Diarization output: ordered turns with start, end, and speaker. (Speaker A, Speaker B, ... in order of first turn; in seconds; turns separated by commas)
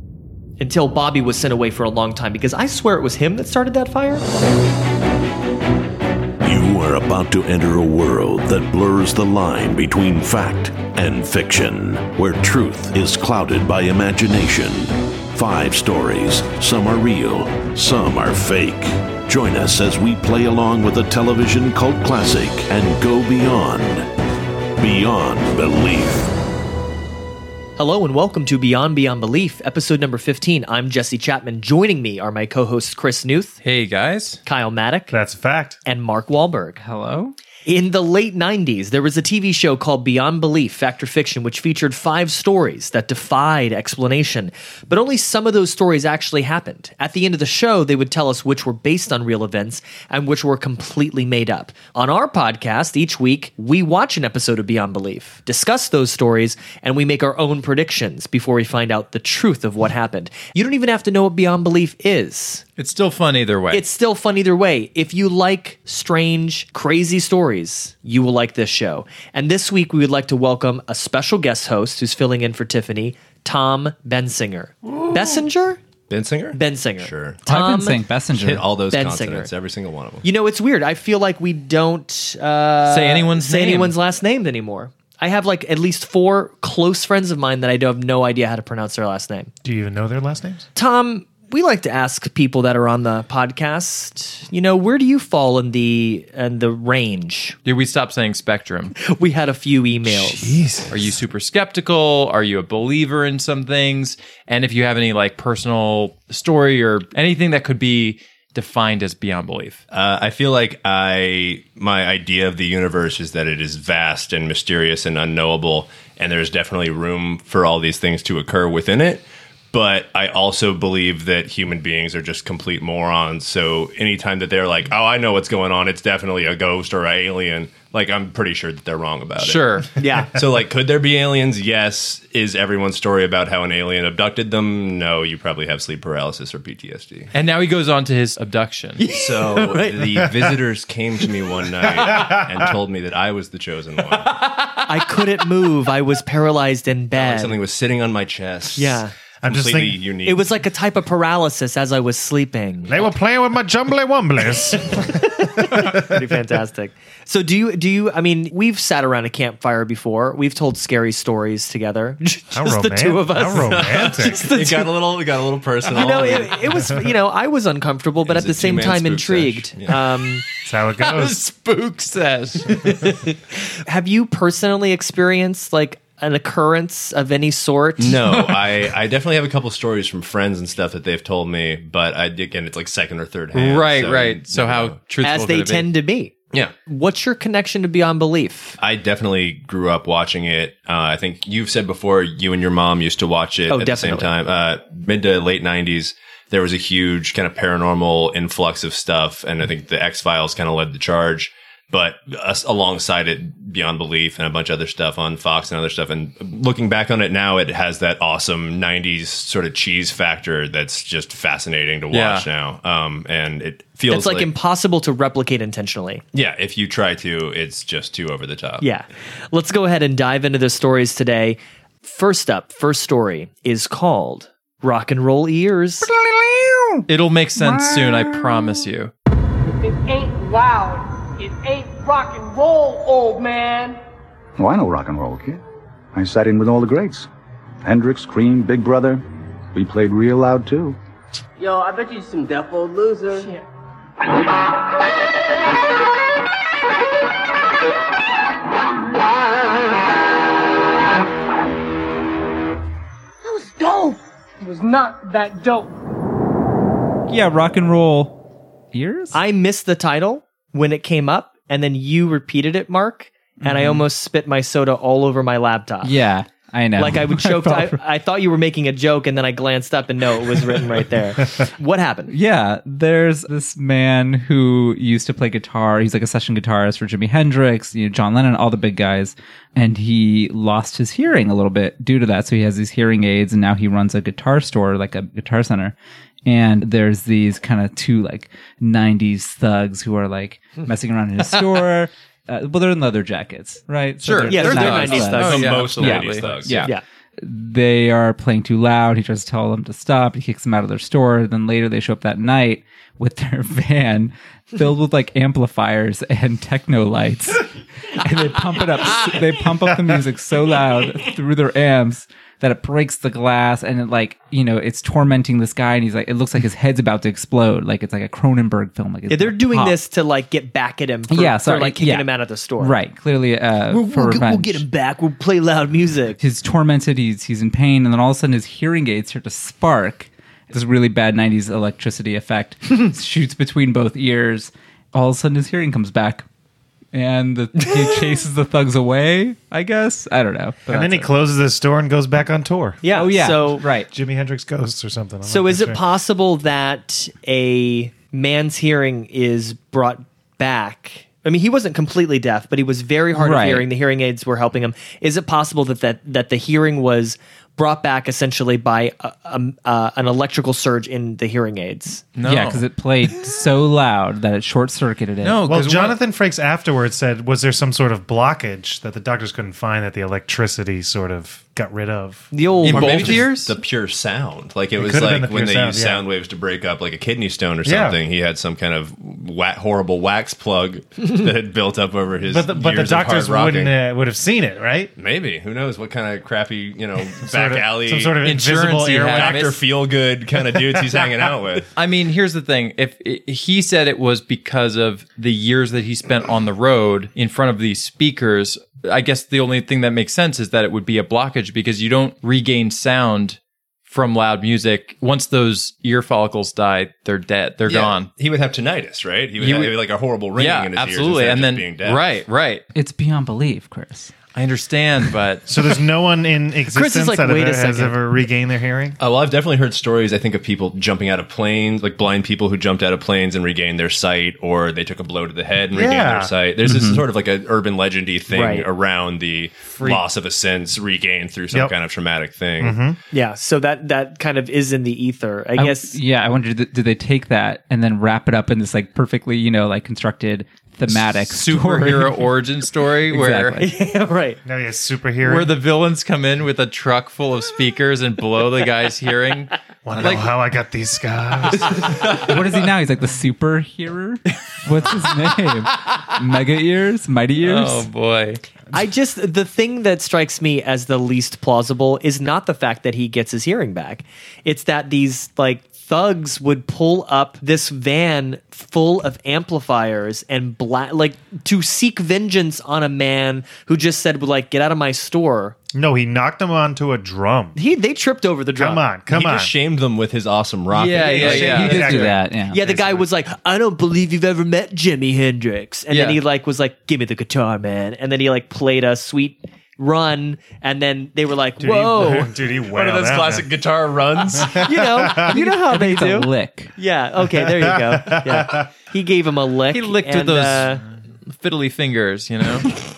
Speaker A: 0.6-4.2, Speaker B: 6.4-24.1, Speaker B: 24.8-26.3, Speaker A: 27.8-33.6, Speaker C: 33.6-34.4, Speaker A: 34.5-35.1, Speaker D: 35.1-35.8, Speaker A: 35.9-36.8, Speaker E: 36.8-37.3, Speaker A: 37.6-62.6, Speaker C: 62.8-63.8, Speaker A: 63.7-75.8, Speaker F: 76.1-77.5, Speaker A: 76.5-78.0, Speaker E: 77.5-78.7, Speaker F: 78.3-80.2, Speaker A: 78.9-79.5, Speaker A: 80.2-89.5, Speaker C: 82.9-83.9, Speaker D: 89.6-90.7, Speaker A: 90.8-97.6, Speaker C: 97.7-99.0, Speaker A: 99.0-100.6, Speaker D: 100.0-101.1, Speaker C: 100.9-109.8, Speaker F: 109.9-137.3, Speaker C: 129.4-129.9, Speaker A: 130.0-130.3, Speaker C: 137.3-139.0, Speaker A: 139.0-140.3, Speaker F: 139.1-144.4, Speaker D: 141.9-142.7, Speaker A: 144.5-147.6, Speaker F: 147.2-150.5, Speaker A: 148.8-149.1, Speaker D: 149.4-150.0, Speaker A: 150.2-153.1, Speaker D: 152.9-156.4, Speaker A: 155.2-164.9, Speaker D: 162.5-164.4, Speaker F: 163.7-166.9, Speaker A: 165.8-170.4, Speaker F: 168.2-170.0, Speaker D: 170.7-171.4, Speaker C: 171.0-173.2, Speaker A: 173.7-178.6, Speaker F: 178.0-185.0, Speaker C: 183.5-185.9, Speaker A: 185.2-186.3, Speaker A: 186.9-188.8, Speaker F: 188.8-214.5, Speaker A: 193.7-194.3, Speaker C: 212.1-212.5, Speaker A: 214.1-216.2, Speaker F: 216.3-218.8, Speaker A: 218.8-226.1, Speaker E: 226.0-228.7, Speaker C: 227.1-229.1, Speaker G: 229.7-234.0, Speaker H: 234.6-235.6, Speaker H: 236.1-237.3, Speaker H: 237.8-239.2, Speaker H: 239.7-241.0, Speaker I: 241.6-243.5, Speaker G: 253.4-255.9, Speaker E: 257.3-258.3, Speaker E: 258.9-259.4, Speaker A: 259.3-266.1, Speaker E: 263.6-264.1, Speaker E: 266.0-268.0, Speaker A: 267.0-272.3, Speaker E: 272.3-285.9, Speaker E: 286.5-307.7, Speaker C: 294.2-296.7, Speaker A: 294.4-295.9, Speaker F: 294.9-296.8, Speaker E: 308.2-320.0, Speaker A: 319.3-323.0, Speaker E: 321.3-322.3, Speaker E: 322.8-324.8, Speaker A: 323.9-326.4, Speaker E: 326.4-336.5, Speaker E: 337.1-341.3, Speaker D: 340.9-343.0, Speaker A: 343.0-343.9, Speaker E: 343.1-344.1, Speaker D: 344.1-346.0, Speaker A: 345.4-362.2, Speaker E: 353.4-353.9, Speaker C: 362.4-362.8, Speaker E: 362.4-365.6, Speaker C: 365.4-366.2, Speaker D: 365.7-372.5, Speaker A: 372.5-373.5, Speaker C: 372.8-373.7, Speaker F: 372.9-383.9, Speaker D: 375.0-376.2, Speaker D: 377.8-378.2, Speaker D: 382.5-385.1, Speaker F: 385.2-388.3, Speaker D: 387.4-389.6, Speaker C: 388.4-389.8, Speaker F: 389.3-391.9, Speaker C: 392.0-408.3, Speaker F: 407.9-412.3, Speaker C: 409.6-410.0, Speaker C: 410.6-412.8, Speaker E: 412.9-414.3, Speaker C: 414.6-415.7, Speaker D: 415.7-419.2, Speaker A: 416.9-418.1, Speaker F: 419.2-433.0, Speaker D: 425.9-426.5, Speaker E: 426.9-427.2, Speaker A: 428.5-428.9, Speaker D: 432.8-433.2, Speaker A: 433.3-436.2, Speaker E: 435.8-442.4, Speaker C: 441.3-443.8, Speaker E: 443.3-443.9, Speaker A: 443.8-444.6, Speaker D: 444.6-445.7, Speaker C: 445.4-450.5, Speaker D: 450.1-452.4, Speaker E: 452.3-458.1, Speaker C: 457.6-458.6, Speaker A: 458.9-475.8, Speaker D: 475.9-477.8, Speaker A: 477.8-479.0, Speaker D: 478.8-479.7, Speaker F: 479.3-482.1, Speaker C: 480.9-482.4, Speaker D: 481.3-483.2, Speaker E: 481.6-482.9, Speaker A: 482.7-492.5, Speaker C: 486.1-486.4, Speaker D: 491.8-493.7, Speaker F: 492.9-494.9, Speaker D: 494.5-495.6, Speaker A: 494.8-501.0, Speaker E: 495.4-496.9, Speaker D: 497.6-498.9, Speaker C: 499.9-502.9